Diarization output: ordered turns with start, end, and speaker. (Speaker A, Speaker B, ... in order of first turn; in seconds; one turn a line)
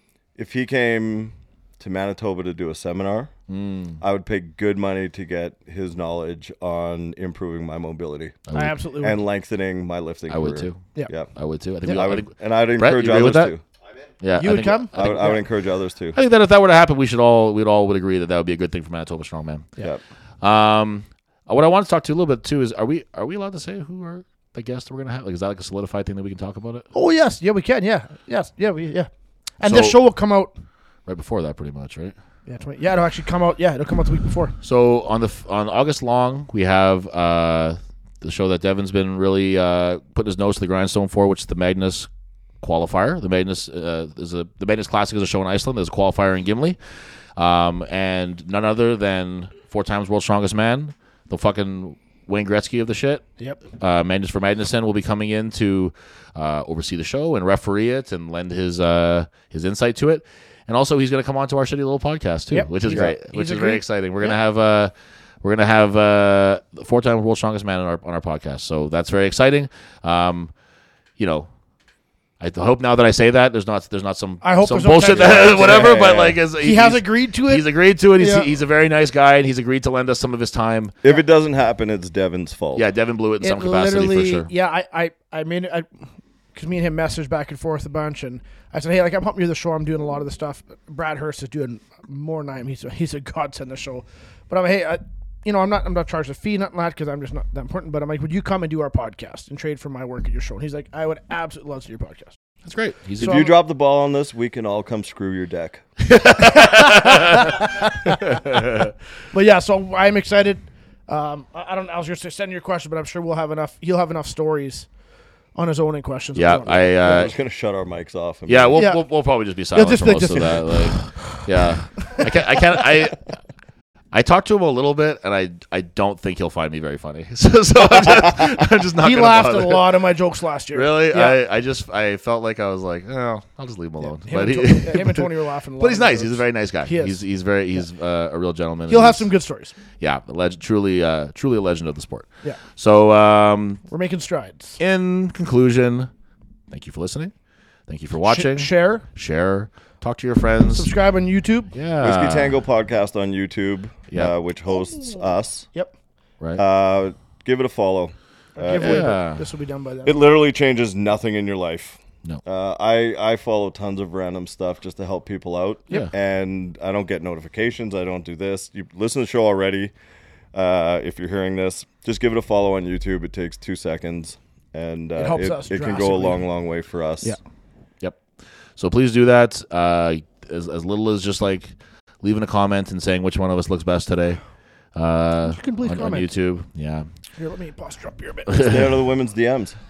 Speaker A: 0.4-3.3
Speaker B: 3.5-4.0
Speaker A: 4.0-8.4
Speaker B: 8.5-8.8
Speaker C: 8.5-9.2
Speaker A: 9.0-11.3
Speaker B: 10.3-13.5
Speaker A: 11.9-13.6
Speaker B: 14.2-15.4
Speaker C: 14.4-15.4
Speaker A: 14.9-16.2
Speaker B: 16.1-19.7
Speaker B: 20.4-26.9
Speaker C: 26.9-29.1
Speaker C: 29.6-30.6
Speaker B: 29.6-30.0
Speaker B: 31.1-32.1
Speaker C: 32.5-34.5
Speaker B: 34.6-42.1
Speaker B: 42.6-46.8
Speaker B: 47.4-53.2
Speaker B: 53.8-70.5
Speaker C: 62.5-64.4
Speaker B: 71.2-71.5
Speaker B: 72.4-80.9
Speaker C: 74.4-76.0
Speaker A: 75.1-76.4
Speaker C: 76.6-78.5
Speaker A: 81.0-82.8
Speaker B: 82.8-84.5
Speaker C: 83.4-85.9
Speaker C: 86.5-102.4
Speaker B: 102.7-103.4
Speaker A: 103.2-105.8
Speaker C: 103.2-103.6
Speaker B: 106.0-107.6
Speaker C: 106.6-108.4
Speaker B: 108.3-108.9
Speaker C: 109.3-114.9
Speaker C: 115.5-117.0
Speaker B: 116.3-117.3
Speaker A: 116.8-118.8
Speaker B: 118.5-123.2
Speaker C: 118.8-119.0
Speaker C: 119.7-121.1
Speaker B: 124.1-130.0
Speaker C: 129.0-131.4
Speaker B: 130.7-139.3
Speaker C: 134.1-137.2
Speaker C: 138.9-139.7
Speaker B: 140.0-143.8
Speaker C: 143.9-144.8
Speaker B: 144.8-146.1
Speaker B: 146.7-147.3
Speaker B: 147.9-150.9
Speaker C: 148.2-149.1
Speaker C: 150.7-151.7
Speaker B: 151.7-152.6
Speaker A: 152.0-155.7
Speaker C: 154.8-155.2
Speaker A: 156.6-159.2
Speaker C: 158.6-160.2
Speaker B: 158.8-159.4
Speaker A: 160.1-169.9
Speaker A: 170.5-177.4
Speaker C: 175.2-176.4
Speaker B: 178.8-184.4
Speaker B: 184.9-187.1
Speaker C: 185.4-186.3
Speaker C: 187.4-188.5
Speaker B: 188.5-189.0
Speaker A: 188.6-189.8